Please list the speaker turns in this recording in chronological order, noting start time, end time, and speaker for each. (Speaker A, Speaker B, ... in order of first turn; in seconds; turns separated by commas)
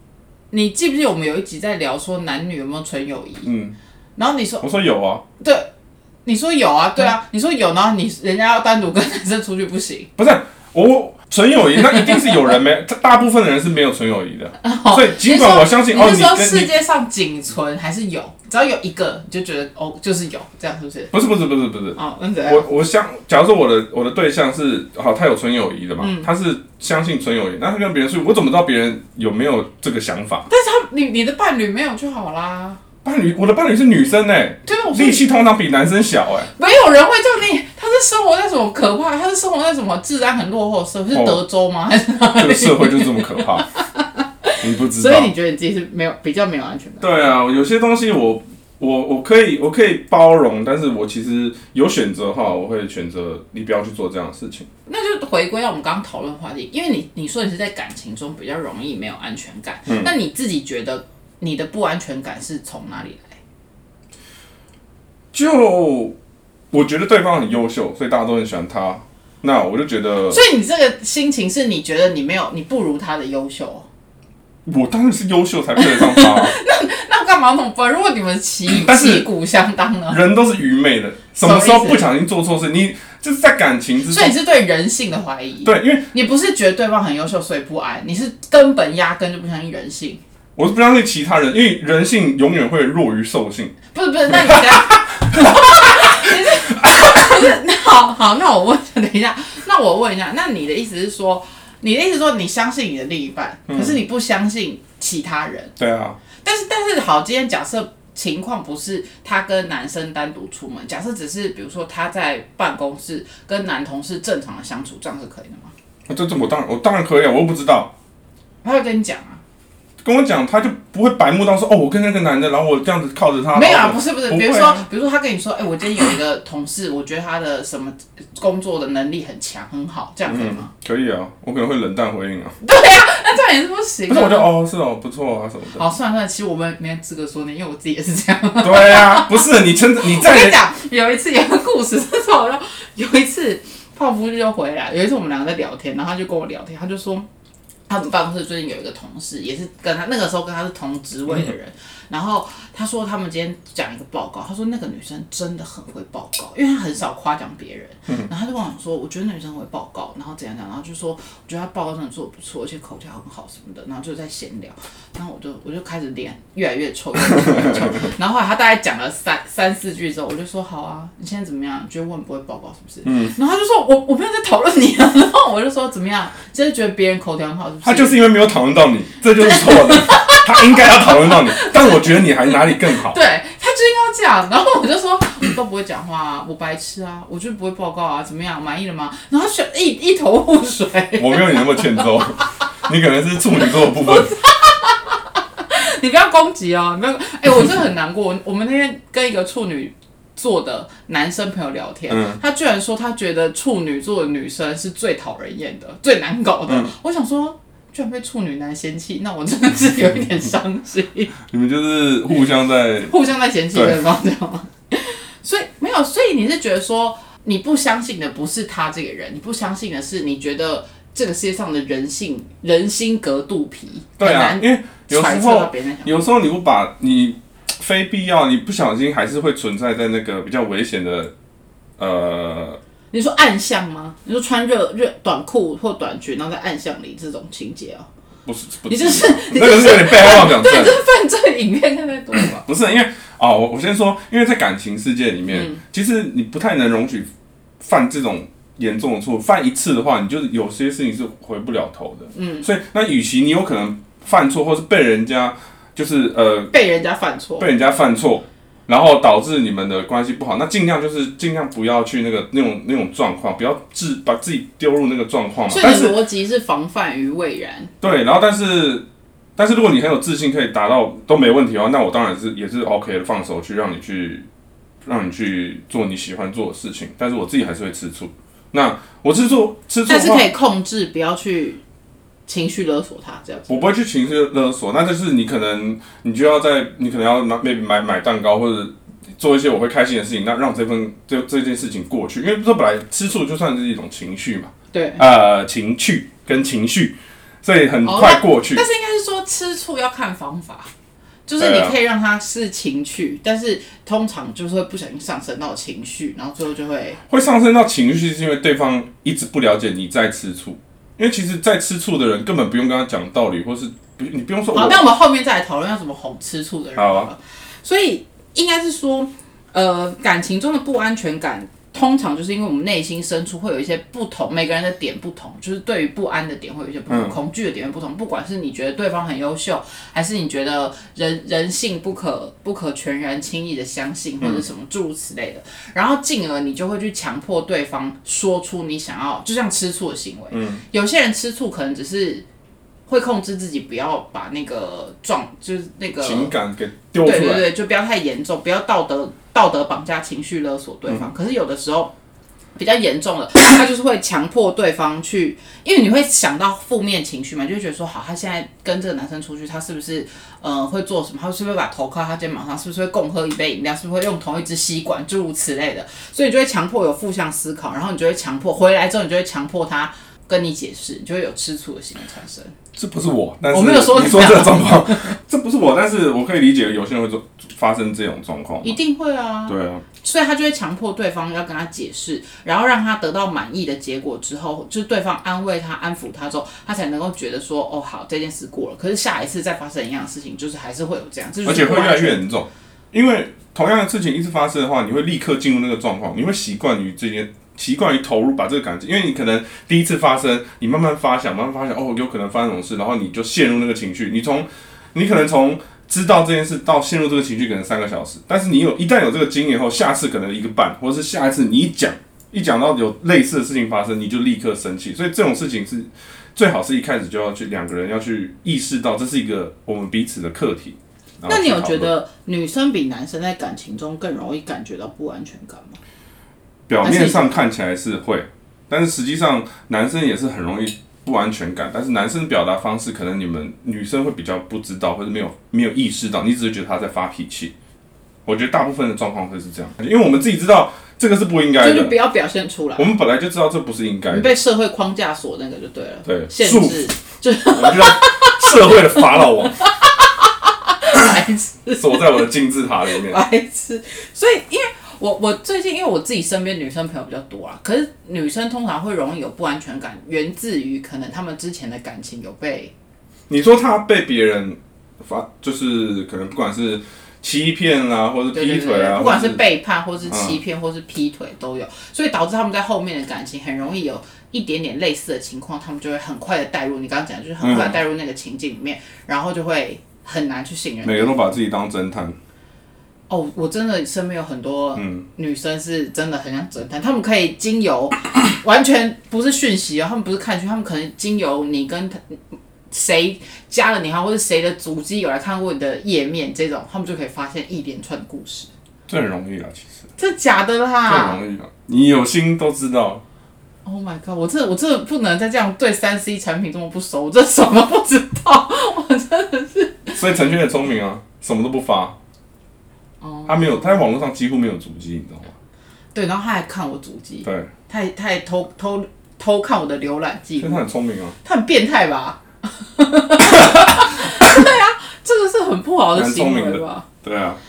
Speaker A: 0.5-3.5, Speaker B: 3.4-3.8, Speaker A: 4.2-4.7, Speaker B: 4.6-5.2, Speaker A: 5.4-5.7, Speaker A: 6.2-10.1, Speaker B: 10.2-16.7, Speaker A: 11.8-12.3, Speaker A: 14.6-21.1, Speaker B: 21.1-30.4, Speaker A: 21.9-22.7, Speaker A: 26.0-26.3, Speaker A: 30.5-32.8, Speaker B: 33.0-36.5, Speaker A: 34.6-35.2, Speaker A: 36.5-47.1, Speaker B: 41.1-41.4, Speaker B: 42.3-43.6, Speaker B: 44.6-45.3, Speaker B: 47.0-54.7, Speaker A: 54.9-63.4, Speaker B: 65.3-66.2, Speaker B: 66.7-70.4, Speaker A: 70.3-73.8, Speaker B: 74.7-76.6, Speaker A: 75.8-80.2, Speaker B: 78.7-79.3, Speaker B: 80.1-84.3, Speaker A: 81.4-82.0, Speaker A: 84.1-90.2, Speaker B: 85.6-86.1, Speaker B: 90.6-93.8, Speaker A: 93.9-105.7, Speaker B: 103.7-104.0, Speaker B: 105.8-106.2, Speaker A: 106.4-115.7, Speaker B: 116.1-117.9, Speaker A: 118.6-119.4, Speaker B: 120.0-124.8, Speaker A: 123.5-130.7, Speaker B: 130.3-132.6, Speaker A: 132.6-134.5, Speaker B: 134.1-135.8, Speaker A: 135.8-147.3, Speaker B: 138.6-140.6, Speaker A: 147.9-178.3, Speaker B: 167.4-167.8, Speaker B: 173.0-173.3, Speaker B: 177.8-183.2, Speaker A: 179.4-192.2, Speaker B: 191.2-194.3, Speaker A: 193.6-211.3, Speaker B: 202.1-202.4, Speaker B: 211.5-213.1, Speaker A: 213.1-226.2, Speaker B: 213.7-214.0, Speaker B: 224.2-231.3, Speaker B: 232.0-232.8, Speaker A: 233.1-238.1, Speaker B: 238.5-241.0, Speaker A: 238.9-242.7, Speaker B: 242.3-247.3, Speaker A: 245.5-245.8, Speaker B: 247.8-256.7, Speaker A: 252.3-252.7, Speaker A: 256.7-257.7, Speaker B: 257.6-266.2, Speaker A: 265.7-267.9, Speaker B: 268.0-269.1, Speaker B: 269.6-274.5, Speaker B: 275.0-280.5, Speaker A: 280.1-281.8, Speaker A: 282.5-283.9, Speaker B: 283.7-298.8, Speaker A: 294.9-295.2, Speaker A: 298.0-300.9, Speaker A: 301.5-307.2, Speaker B: 301.6-302.0, Speaker B: 307.3-315.0, Speaker A: 314.7-342.5, Speaker B: 317.0-317.3, Speaker B: 327.1-327.4, Speaker B: 340.5-340.8, Speaker A: 343.1-346.5, Speaker B: 346.2-347.7, Speaker A: 347.2-352.1, Speaker A: 352.8-372.7, Speaker B: 372.9-379.0, Speaker A: 373.7-375.4, Speaker A: 378.8-392.4, Speaker B: 379.7-380.0, Speaker B: 391.6-422.1, Speaker A: 421.4-426.0, Speaker B: 426.9-437.7, Speaker A: 427.0-427.6, Speaker B: 438.4-442.1, Speaker A: 441.8-443.1, Speaker B: 443.0-444.5, Speaker A: 444.3-452.4, Speaker B: 446.2-447.0, Speaker B: 447.7-449.8, Speaker B: 452.0-453.4, Speaker A: 453.1-462.9, Speaker B: 463.5-469.6, Speaker A: 468.5-481.4, Speaker B: 470.3-470.6, Speaker B: 477.6-478.0, Speaker B: 481.0-482.4, Speaker A: 483.3-498.7, Speaker B: 485.0-485.2, Speaker B: 499.1-500.0, Speaker A: 500.2-501.4, Speaker B: 501.1-503.2, Speaker A: 503.9-510.4, Speaker B: 510.1-512.1, Speaker A: 513.2-514.1, Speaker B: 513.5-515.5, Speaker A: 516.1-520.8, Speaker B: 517.4-517.7, Speaker B: 520.6-521.4, Speaker A: 521.4-527.0, Speaker B: 523.6-523.9, Speaker B: 526.1-527.6